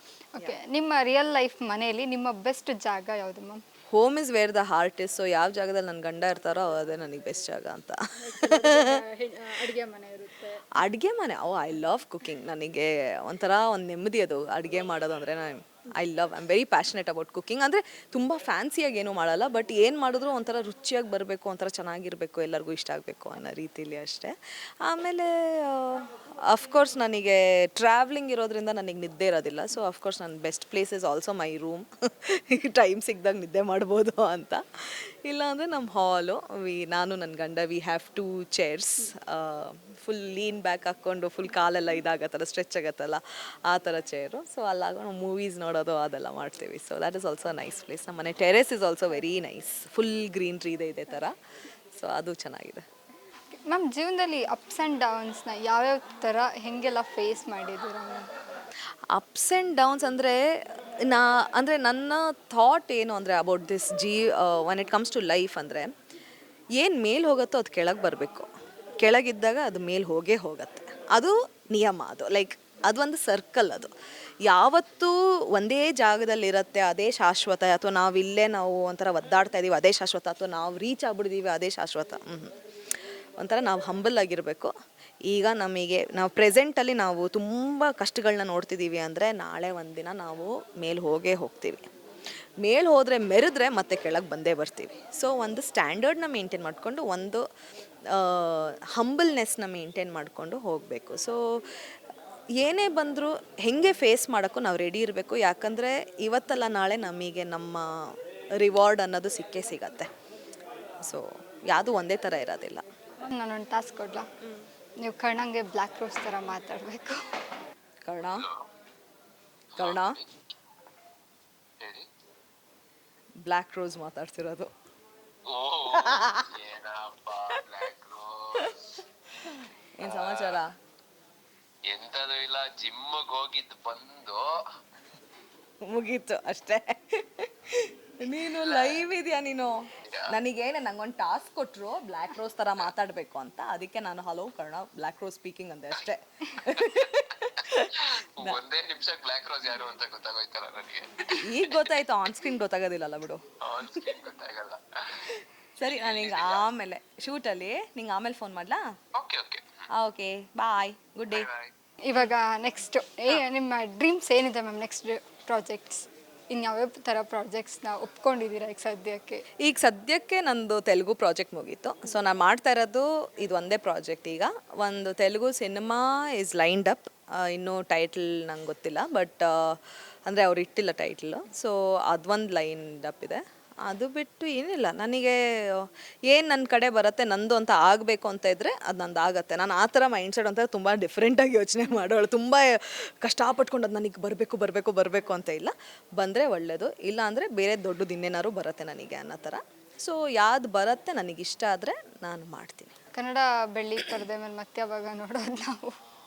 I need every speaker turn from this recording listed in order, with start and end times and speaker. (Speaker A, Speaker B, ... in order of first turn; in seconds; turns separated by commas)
Speaker A: 0.4-3.6, Speaker B: 3.9-9.0, Speaker A: 8.2-10.7, Speaker B: 10.7-51.3, Speaker B: 51.9-52.8, Speaker A: 53.6-58.3, Speaker B: 59.1-65.9, Speaker B: 66.8-73.9, Speaker B: 74.4-82.5, Speaker B: 83.4-84.7, Speaker B: 85.3-91.9, Speaker B: 92.6-97.4, Speaker B: 98.1-101.8, Speaker B: 102.6-110.1, Speaker B: 111.0-112.8, Speaker A: 113.2-114.3, Speaker A: 115.0-117.3, Speaker B: 118.0-118.5, Speaker C: 118.3-118.6, Speaker C: 119.7-120.1, Speaker B: 119.8-120.2, Speaker C: 121.8-122.0, Speaker B: 123.4-124.7, Speaker C: 125.5-128.9, Speaker B: 125.9-126.6, Speaker B: 129.4-130.7, Speaker C: 130.0-130.6, Speaker C: 131.9-134.5, Speaker B: 135.8-148.6, Speaker C: 138.6-139.0, Speaker C: 140.1-140.3, Speaker C: 146.7-152.0, Speaker B: 151.3-154.1, Speaker C: 153.6-156.7, Speaker B: 155.8-158.9, Speaker C: 159.1-159.8, Speaker B: 159.9-161.5, Speaker C: 161.3-161.7, Speaker A: 162.0-169.4, Speaker B: 169.6-202.9, Speaker A: 203.1-205.9